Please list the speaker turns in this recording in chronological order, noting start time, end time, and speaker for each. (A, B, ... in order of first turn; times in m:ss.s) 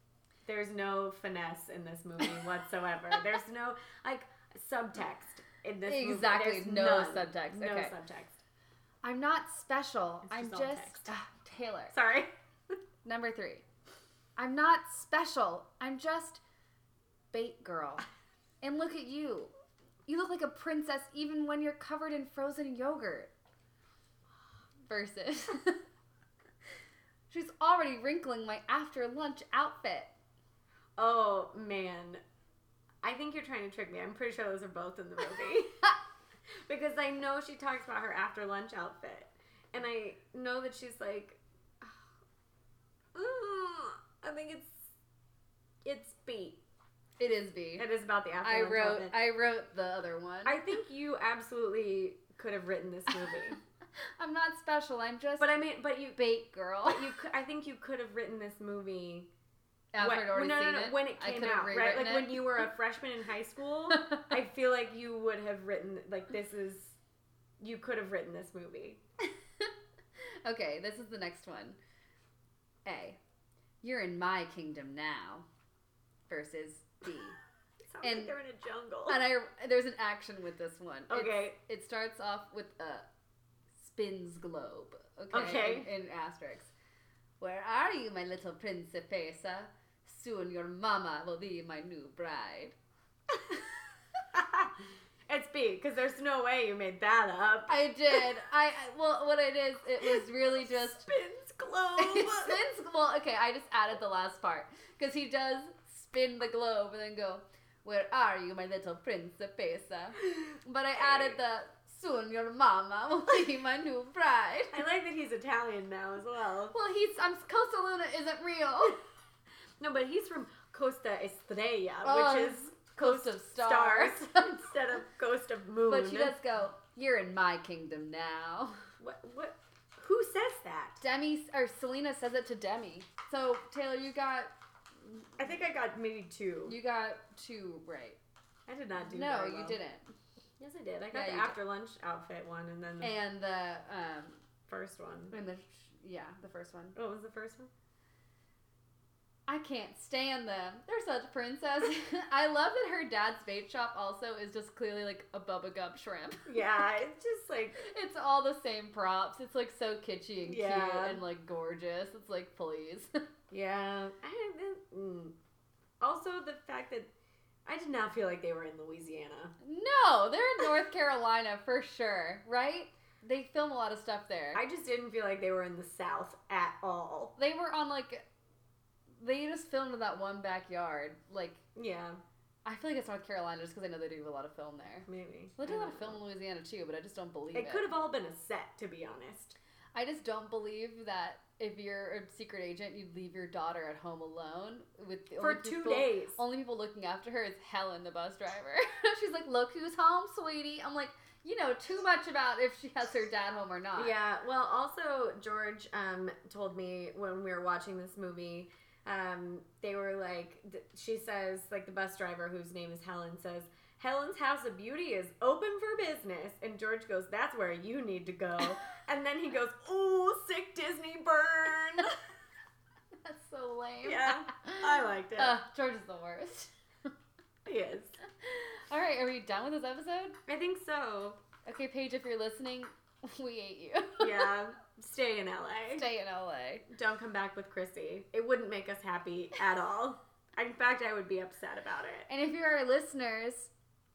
0:00.5-0:08.4 A
0:05.9-0:08.0 B
0:09.0-0:12.0 B
0:10.3-0:11.1 A
0:11.9-0:12.3 A
0:13.0-0:13.6 B
0:14.4-0:16.4 B
0:17.3-0:18.0 B
0:18.6-0:19.5 B
0:20.1-0:23.3 B
0:24.9-0:25.8 B
0:27.3-0:30.1 B
0:31.0-0:32.2 A
0:33.0-0:35.9 A
0:36.7-0:42.1 A
0:43.1-0:44.9 A
0:45.8-0:46.6 A
0:47.2-0:47.9 B
0:47.8-0:49.2 A
0:48.4-0:50.6 B
0:50.4-0:53.6 A
0:54.2-0:55.5 B
0:55.4-0:59.3 A
0:56.2-0:57.2 B
0:59.9-1:02.7 B
1:00.0-1:07.0 A
1:03.9-1:04.2 B
1:07.6-1:09.0 A
1:09.3-1:09.7 B
1:10.4-1:11.8 B
1:12.8-1:13.2 B
1:13.8-1:15.5 B
1:16.3-1:17.4 B
1:17.9-1:19.2 A
1:18.0-1:18.3 B
1:19.1-1:23.1 B
1:21.1-1:21.6 A
1:23.8-1:26.7 B
1:25.3-1:25.9 A
1:27.4-1:32.8 B
1:33.5-1:33.7 B
1:34.3-1:38.3 A
1:37.7-1:41.1 B
1:40.0-1:42.6 A
1:42.0-1:54.8 B
1:51.0-1:51.4 A
1:54.7-1:56.8 A
1:56.7-1:59.0 B
1:59.8-2:06.4 A
2:02.0-2:04.6 B
2:05.9-2:08.9 B
2:09.0-2:11.0 A
2:11.0-2:14.5 B
2:15.4-2:16.8 A
2:16.7-2:18.2 B
2:18.7-2:19.8 A
2:19.0-2:20.1 B
2:20.6-2:23.1 A
2:21.1-2:21.6 B
2:23.0-2:24.4 B
2:24.7-2:25.3 A
2:25.3-2:27.0 B
2:27.0-2:27.7 A
2:29.5-2:36.6 B
2:36.5-2:37.9 A
2:37.8-2:43.1 B
2:40.5-2:41.2 A
2:43.5-2:45.4 A
2:46.0-2:47.1 A
2:47.7-2:49.5 A
2:49.6-2:54.6 B
2:54.5-2:57.4 A
2:57.4-2:58.2 B
2:59.2-3:01.6 B
3:01.8-3:02.2 A
3:02.6-3:07.9 B
3:05.1-3:06.2 A
3:07.5-3:09.6 A
3:10.0-3:24.1 B
3:15.4-3:16.4 A
3:24.0-3:42.2 A
3:43.2-3:46.7 B
3:44.0-3:45.6 A
3:47.6-3:48.2 A
3:48.3-3:50.4 B
3:50.5-3:51.4 A
3:51.7-3:54.6 B
3:54.2-3:56.1 A
3:56.0-3:56.9 B
3:56.9-4:02.3 A
4:02.3-4:03.7 B